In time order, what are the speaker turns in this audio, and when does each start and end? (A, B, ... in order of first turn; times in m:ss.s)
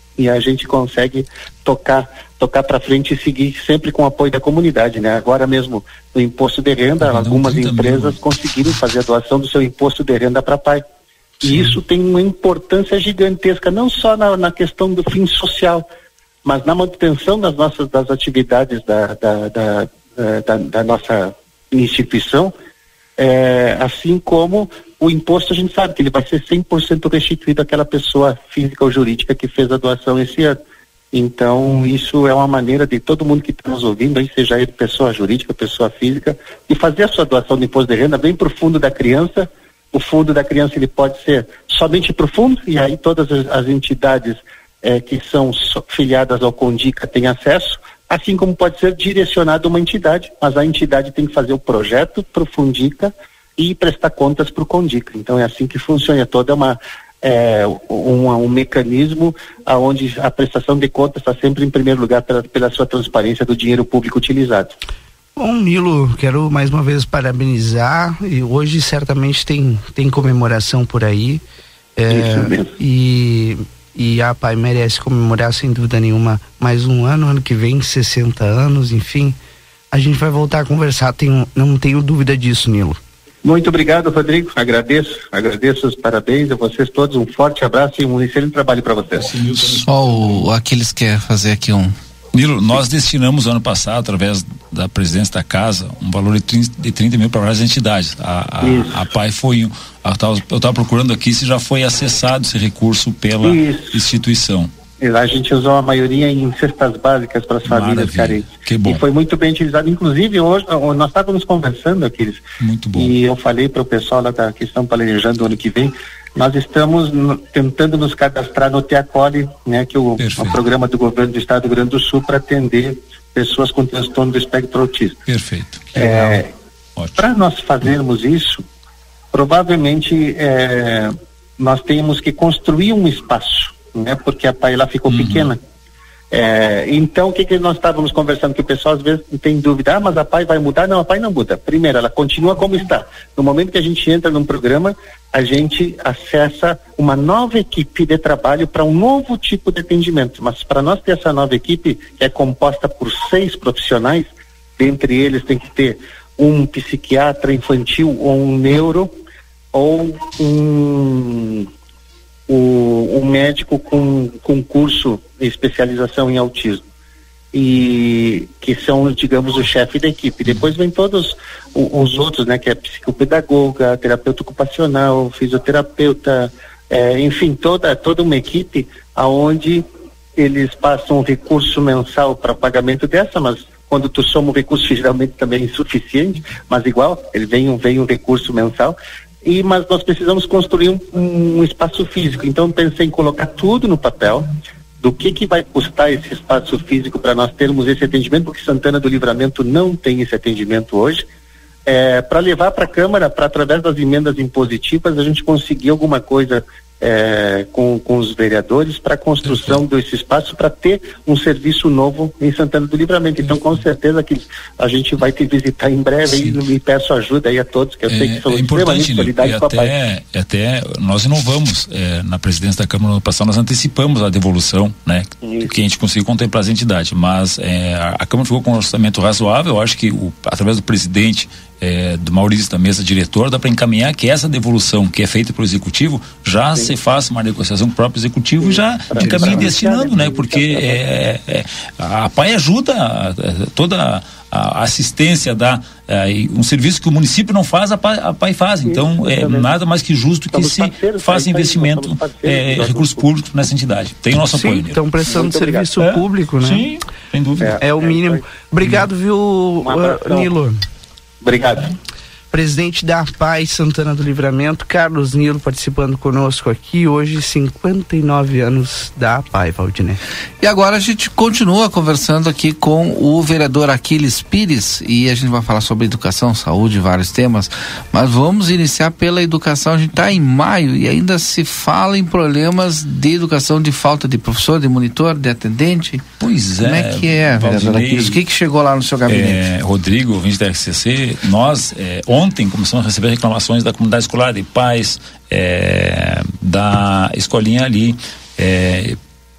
0:00.2-0:10.8 A
0:07.0-0:08.2 B
0:11.4-0:15.8 A
0:11.4-0:11.7 B
0:16.4-0:22.5 A
0:23.2-0:30.6 A
0:31.1-1:04.7 A
1:05.4-1:11.4 C
1:12.0-1:19.4 C
1:12.1-1:12.7 A
1:19.9-1:23.0 C
1:23.4-1:29.3 A
1:29.2-1:29.8 B
1:29.8-1:31.9 D
1:32.3-1:44.7 B
1:38.6-1:38.9 A
1:43.4-1:44.0 A
1:45.0-1:52.4 A
1:47.6-1:49.0 B
1:52.6-1:53.1 B
1:53.0-2:05.2 A
2:00.2-2:00.6 B
2:05.3-2:06.2 B
2:05.9-2:06.5 A
2:06.0-2:06.3 C
2:07.0-2:07.2 B
2:07.2-2:08.6 A
2:09.3-2:15.6 A
2:15.1-2:15.5 B
2:16.3-2:34.3 A
2:34.8-2:39.1 A
2:39.7-2:41.7 A
2:42.5-2:46.8 A
2:47.5-2:59.8 A
3:00.4-3:14.5 A
3:15.0-3:21.2 A
3:21.9-3:39.9 A
3:29.4-3:29.8 B
3:33.4-3:33.8 B
3:36.3-3:36.6 B
3:38.1-4:15.0 B
3:45.4-3:45.7 A
3:58.6-4:01.0 A
4:08.9-4:09.7 A
4:10.5-4:13.2 A
4:14.5-4:16.9 C
4:15.2-4:15.9 A
4:16.0-4:17.7 B
4:17.6-4:18.4 A
4:17.8-4:20.8 C
4:19.8-4:20.5 A
4:21.4-4:21.9 A
4:22.5-4:30.2 C
4:30.6-4:46.3 D
4:46.4-4:48.4 B
4:46.8-4:49.6 D
4:49.3-4:59.2 B